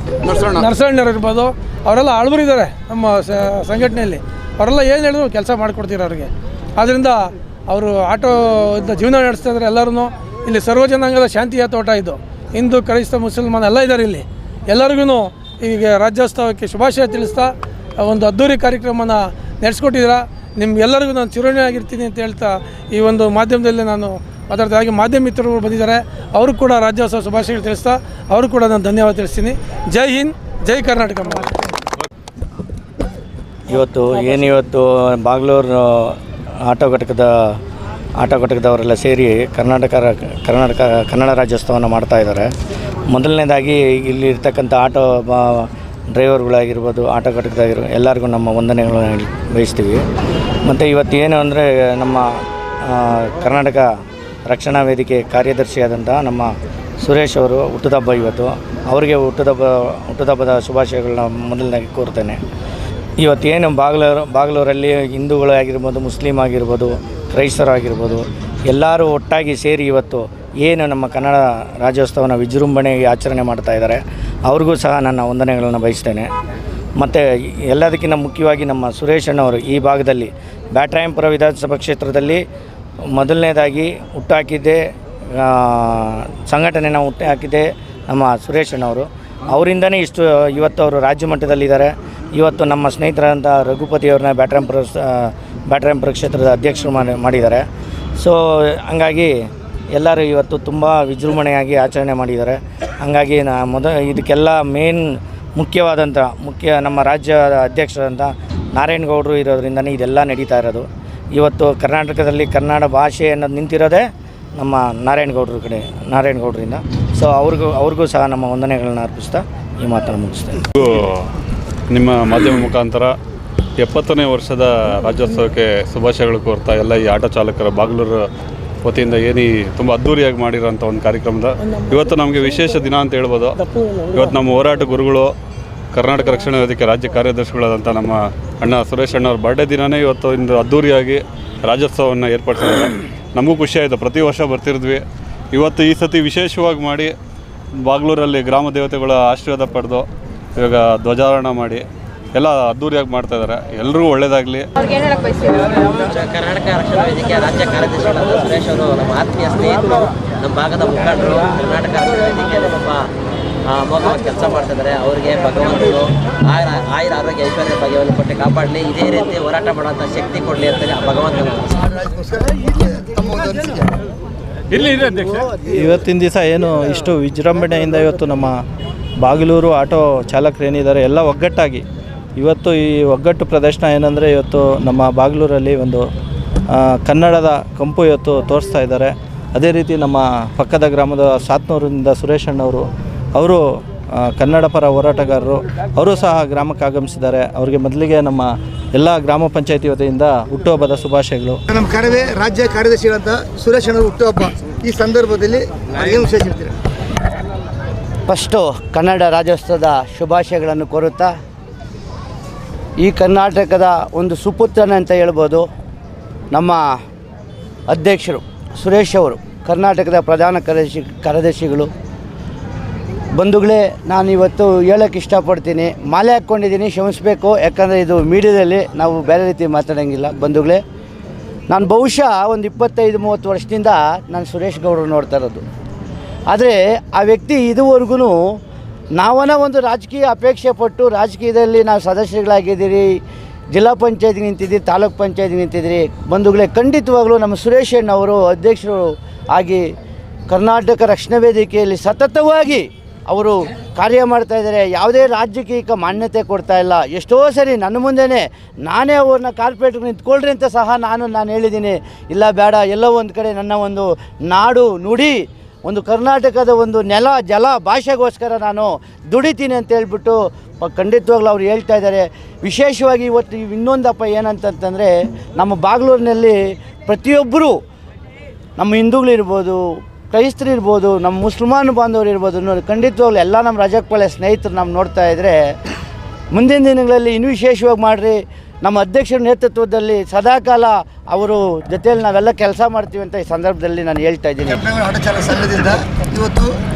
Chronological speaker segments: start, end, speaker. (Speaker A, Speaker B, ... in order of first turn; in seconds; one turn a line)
Speaker A: 0.3-31.5
Speaker B: 33.7-37.6
Speaker B: 38.2-42.5
Speaker B: 43.1-50.0
Speaker B: 50.6-53.9
Speaker B: 54.5-62.4
Speaker B: 63.2-76.3
Speaker B: 77.0-82.4
Speaker B: 83.0-97.6
Speaker B: 98.2-120.6
Speaker C: 120.8-121.3
Speaker C: 121.9-123.1
Speaker C: 123.8-128.2
Speaker C: 128.8-133.5
Speaker A: 131.6-132.8
Speaker A: 133.6-134.3
Speaker C: 134.1-135.3
Speaker C: 135.9-147.1
Speaker C: 147.8-150.1
Speaker C: 150.6-154.7
Speaker D: 155.5-163.1
Speaker D: 163.7-171.7
Speaker E: 171.8-173.9
Speaker F: 174.8-175.4
Speaker G: 175.7-178.6
Speaker G: 179.2-181.8
Speaker G: 182.4-186.1
Speaker G: 186.7-201.6
Speaker E: 201.7-206.8
Speaker F: 208.3-211.3
Speaker F: 213.0-215.7
Speaker F: 216.5-216.8
Speaker F: 217.9-221.9
Speaker F: 223.3-230.8
Speaker F: 231.7-235.6
Speaker F: 236.5-238.4
Speaker F: 239.2-243.2
Speaker F: 243.7-249.9
Speaker F: 250.5-277.8
Speaker F: 278.8-285.6
Speaker F: 286.5-294.8
Speaker E: 294.7-296.8